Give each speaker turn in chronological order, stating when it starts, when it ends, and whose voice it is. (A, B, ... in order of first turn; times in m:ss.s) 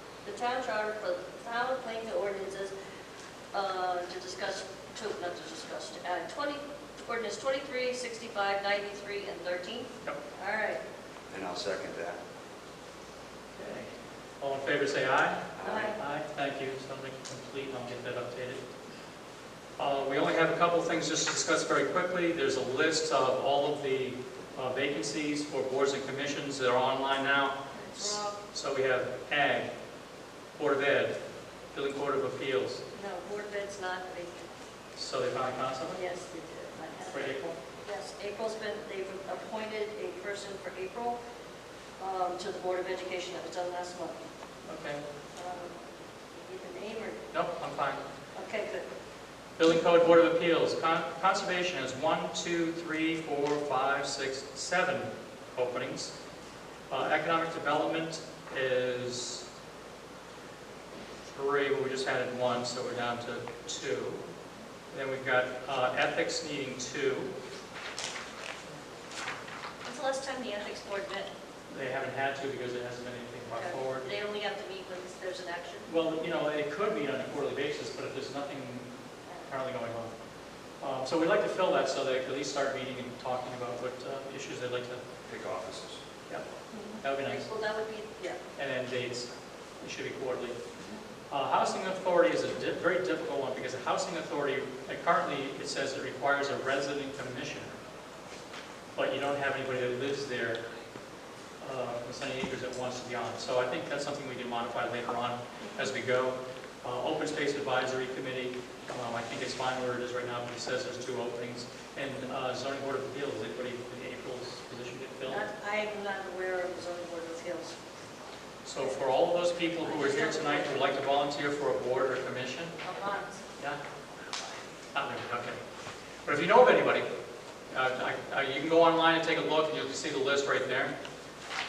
0:00.2-0:02.7 A
0:03.5-0:10.8 A
0:11.3-0:12.2 B
0:13.5-0:18.6 C
0:15.6-0:15.9 B
0:15.6-0:16.0 A
0:19.8-0:29.7 C
0:27.7-0:28.4 A
0:30.6-0:31.2 C
0:31.7-0:32.8 C
0:32.9-0:34.5 A
0:35.0-0:36.0 C
0:35.9-0:41.2 A
0:37.1-0:37.6 C
0:42.0-0:44.2 A
0:44.7-0:45.0 C
0:45.3-0:45.8 A
0:46.3-0:47.2 A
0:47.3-0:48.0 C
0:48.3-0:48.8 A
0:49.6-0:56.1 C
0:56.9-0:59.4 C
1:01.3-1:04.2 C
1:04.9-1:07.3 C
1:09.8-1:11.3 A
1:11.7-1:14.1 C
1:13.5-1:15.9 A
1:15.9-1:18.9 C
1:19.5-1:20.1 C
1:20.8-1:25.0 C
1:25.2-1:26.0 B
1:26.7-1:28.4 A
1:27.0-1:27.5 C
1:28.6-1:29.3 C
1:29.8-1:30.6 C
1:31.3-1:37.7 C
1:39.0-1:40.6 C
1:41.6-1:55.4 C
1:45.6-1:45.9 A
1:55.3-1:57.8 A
1:58.6-2:02.8 C
1:59.8-2:00.9 A
2:02.8-2:03.4 A
2:04.9-2:05.6 C
2:06.2-2:07.1 C
2:07.7-2:10.9 C